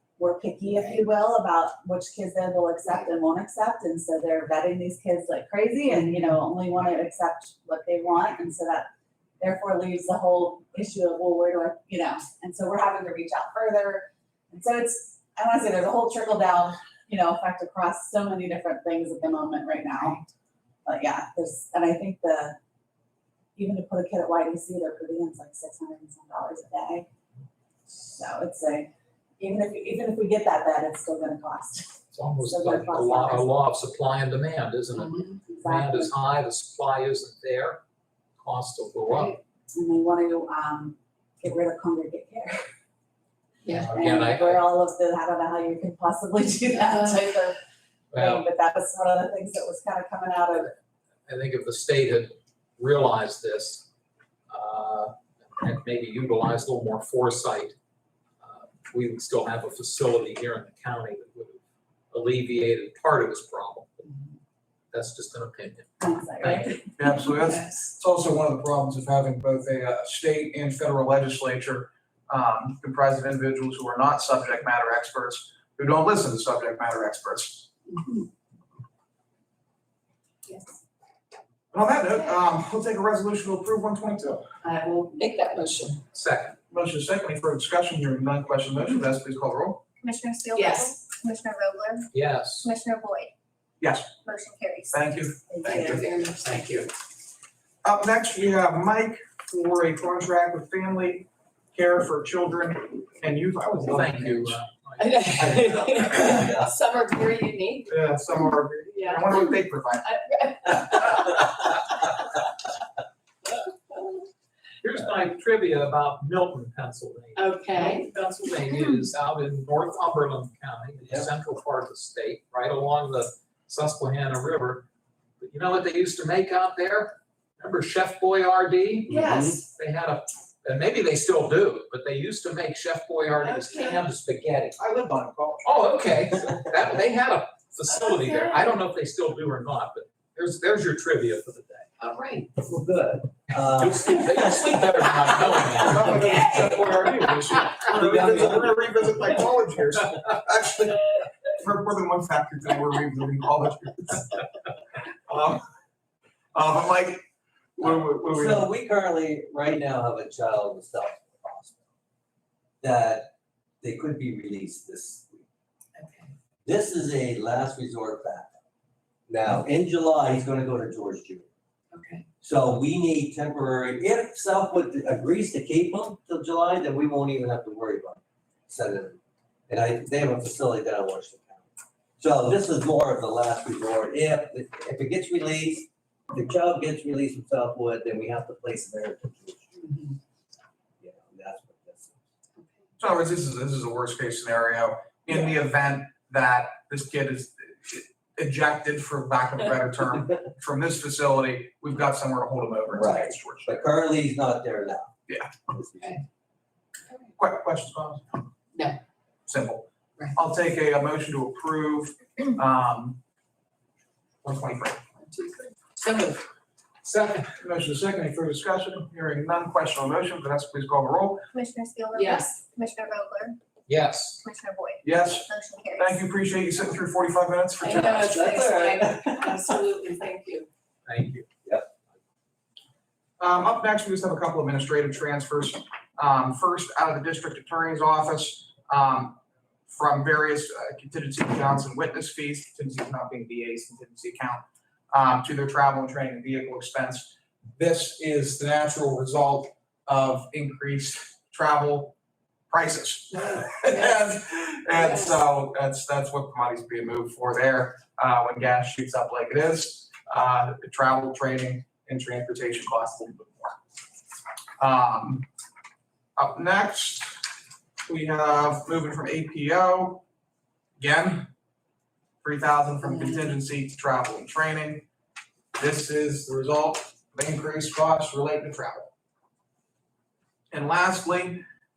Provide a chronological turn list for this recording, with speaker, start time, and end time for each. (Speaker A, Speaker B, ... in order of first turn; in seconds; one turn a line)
Speaker A: 0.2-8.9
Speaker B: 0.7-1.0
Speaker A: 9.4-20.2
Speaker A: 20.9-22.6
Speaker A: 23.6-27.1
Speaker A: 28.1-33.5
Speaker C: 32.1-37.8
Speaker B: 34.9-35.4
Speaker A: 35.5-36.1
Speaker C: 38.4-39.4
Speaker A: 39.7-42.7
Speaker B: 43.6-43.9
Speaker C: 43.7-44.7
Speaker A: 43.8-47.6
Speaker B: 46.8-47.2
Speaker C: 48.1-48.5
Speaker A: 48.1-50.7
Speaker C: 51.3-53.9
Speaker C: 54.5-57.7
Speaker C: 58.4-61.6
Speaker C: 62.1-64.1
Speaker C: 64.9-66.7
Speaker A: 66.0-66.9
Speaker D: 67.0-77.7
Speaker D: 81.7-84.5
Speaker B: 84.6-86.0
Speaker C: 86.1-86.6
Speaker D: 86.7-89.8
Speaker E: 90.0-93.3
Speaker B: 90.5-91.0
Speaker C: 92.1-92.7
Speaker D: 93.8-94.1
Speaker E: 94.2-95.8
Speaker D: 94.9-96.0
Speaker B: 95.6-96.9
Speaker D: 97.8-104.6
Speaker C: 103.9-105.8
Speaker B: 105.0-108.0
Speaker F: 106.2-106.7
Speaker D: 107.9-110.1
Speaker B: 108.9-112.0
Speaker C: 114.8-124.8
Speaker B: 117.3-118.1
Speaker C: 125.4-134.8
Speaker B: 129.1-129.6
Speaker F: 129.1-129.6
Speaker B: 133.4-134.1
Speaker D: 134.8-135.8
Speaker C: 135.6-142.5
Speaker B: 137.9-138.7
Speaker F: 142.6-144.2
Speaker C: 143.5-146.7
Speaker D: 145.8-154.4
Speaker B: 146.3-147.3
Speaker F: 147.9-148.7
Speaker D: 155.3-155.6
Speaker D: 156.5-157.2
Speaker D: 157.8-158.7
Speaker F: 158.0-161.8
Speaker F: 162.8-165.4
Speaker B: 166.0-166.3
Speaker F: 166.6-168.6
Speaker F: 169.3-171.5
Speaker B: 171.9-172.2
Speaker F: 172.4-189.8
Speaker B: 189.8-190.1
Speaker F: 191.0-192.2
Speaker D: 193.0-203.8
Speaker F: 202.9-205.1
Speaker D: 207.4-208.4
Speaker B: 208.7-209.0
Speaker D: 209.5-213.2
Speaker D: 214.4-215.0
Speaker B: 215.2-216.4
Speaker C: 217.0-217.5
Speaker D: 217.4-221.4
Speaker E: 221.5-223.6
Speaker B: 222.1-222.6
Speaker C: 223.9-224.4
Speaker E: 224.4-226.2
Speaker D: 225.0-228.4
Speaker B: 227.8-230.7
Speaker F: 228.2-229.8
Speaker C: 231.1-231.4
Speaker D: 233.4-252.1
Speaker D: 252.7-263.8
Speaker B: 253.5-254.2
Speaker B: 255.0-255.3
Speaker D: 264.8-265.5
Speaker D: 266.4-267.4
Speaker D: 268.1-270.2
Speaker D: 271.0-271.5
Speaker D: 272.4-275.1
Speaker D: 275.8-279.1
Speaker D: 280.7-281.6